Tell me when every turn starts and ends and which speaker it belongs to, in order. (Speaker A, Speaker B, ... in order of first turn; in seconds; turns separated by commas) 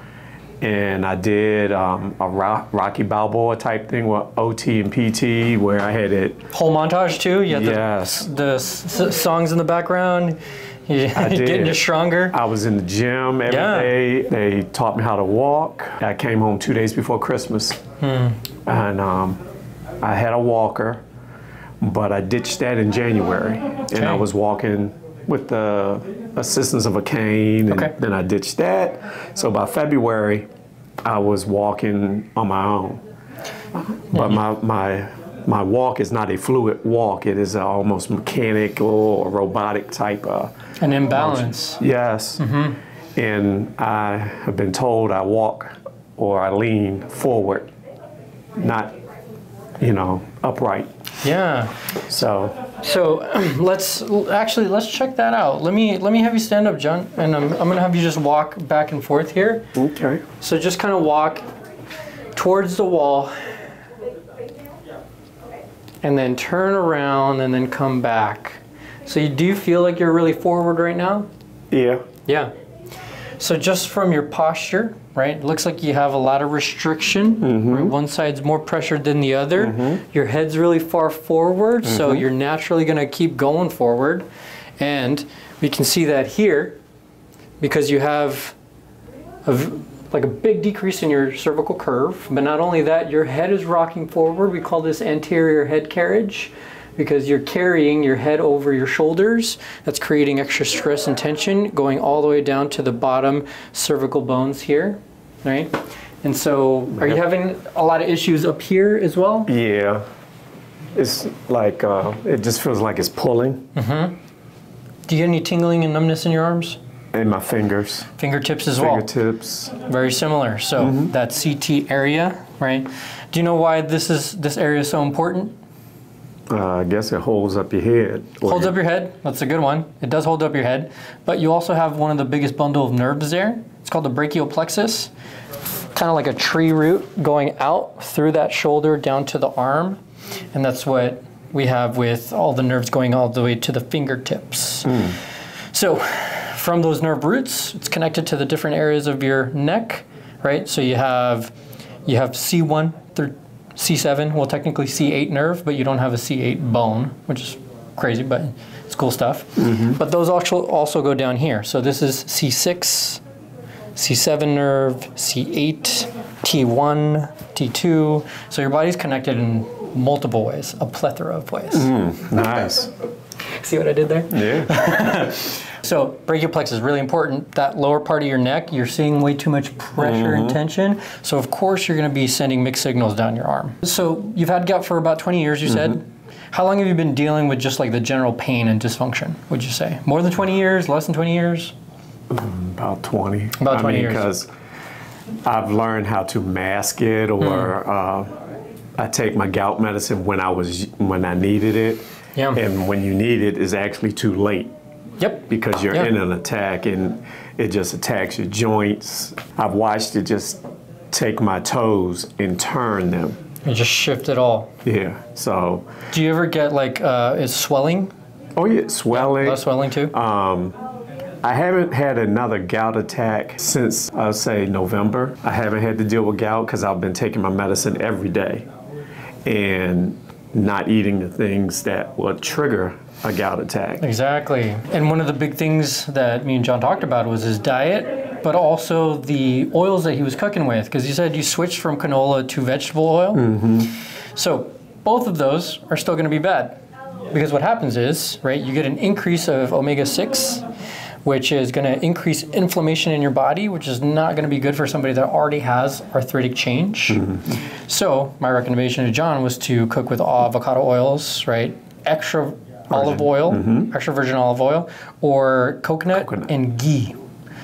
Speaker A: 0.6-6.4, Speaker B: 6.5-12.3, Speaker A: 7.5-8.3, Speaker A: 11.1-17.8, Speaker B: 13.5-13.9, Speaker B: 18.0-18.4, Speaker A: 18.6-19.4, Speaker A: 20.0-21.0, Speaker A: 21.8-30.5, Speaker B: 23.9-24.2, Speaker A: 31.0-33.0, Speaker A: 33.7-40.5, Speaker B: 34.1-34.4, Speaker B: 40.8-41.8, Speaker A: 41.1-42.5, Speaker B: 42.4-42.8, Speaker A: 43.1-47.7, Speaker A: 48.6-49.0, Speaker A: 49.8-50.9, Speaker B: 51.2-51.7, Speaker A: 52.1-52.6, Speaker B: 52.8-59.7, Speaker A: 59.7-60.2, Speaker B: 60.4-61.5, Speaker B: 62.3-63.4, Speaker B: 66.0-71.3, Speaker A: 71.7-72.0, Speaker B: 72.3-72.5, Speaker B: 73.4-84.3, Speaker A: 77.4-77.9, Speaker A: 79.6-80.0, Speaker A: 81.8-82.2, Speaker B: 84.8-86.8, Speaker B: 87.6-88.5, Speaker B: 89.4-109.5, Speaker A: 109.5-110.0, Speaker A: 110.9-113.7, Speaker B: 113.8-114.2, Speaker B: 115.1-116.8, Speaker A: 117.1-118.1, Speaker B: 118.2-119.1, Speaker A: 118.8-119.7, Speaker B: 119.8-125.5, Speaker A: 120.8-121.1, Speaker A: 126.5-128.8, Speaker B: 128.4-135.1, Speaker B: 135.9-140.0, Speaker B: 140.5-145.1, Speaker A: 144.8-145.2, Speaker B: 145.7-151.5, Speaker B: 152.1-163.2, Speaker A: 159.6-160.0, Speaker B: 163.9-171.9, Speaker A: 171.7-172.9, Speaker B: 173.5-191.7, Speaker A: 174.3-174.8, Speaker A: 180.0-180.6, Speaker A: 185.7-186.0, Speaker A: 192.3-194.5, Speaker B: 193.6-194.3, Speaker A: 195.4-198.3, Speaker B: 197.4-197.7, Speaker A: 199.0-204.7, Speaker B: 205.2-206.1, Speaker A: 205.5-213.4, Speaker B: 213.6-214.7, Speaker A: 214.8-215.9, Speaker B: 216.1-218.1, Speaker A: 218.6-220.8, Speaker B: 219.1-220.1, Speaker A: 221.4-228.7, Speaker A: 229.4-234.0, Speaker B: 234.0-243.4, Speaker A: 243.3-243.9, Speaker B: 244.3-246.8, Speaker B: 247.3-250.6, Speaker B: 251.2-267.2, Speaker A: 257.1-257.5, Speaker A: 262.9-263.9, Speaker A: 266.1-266.5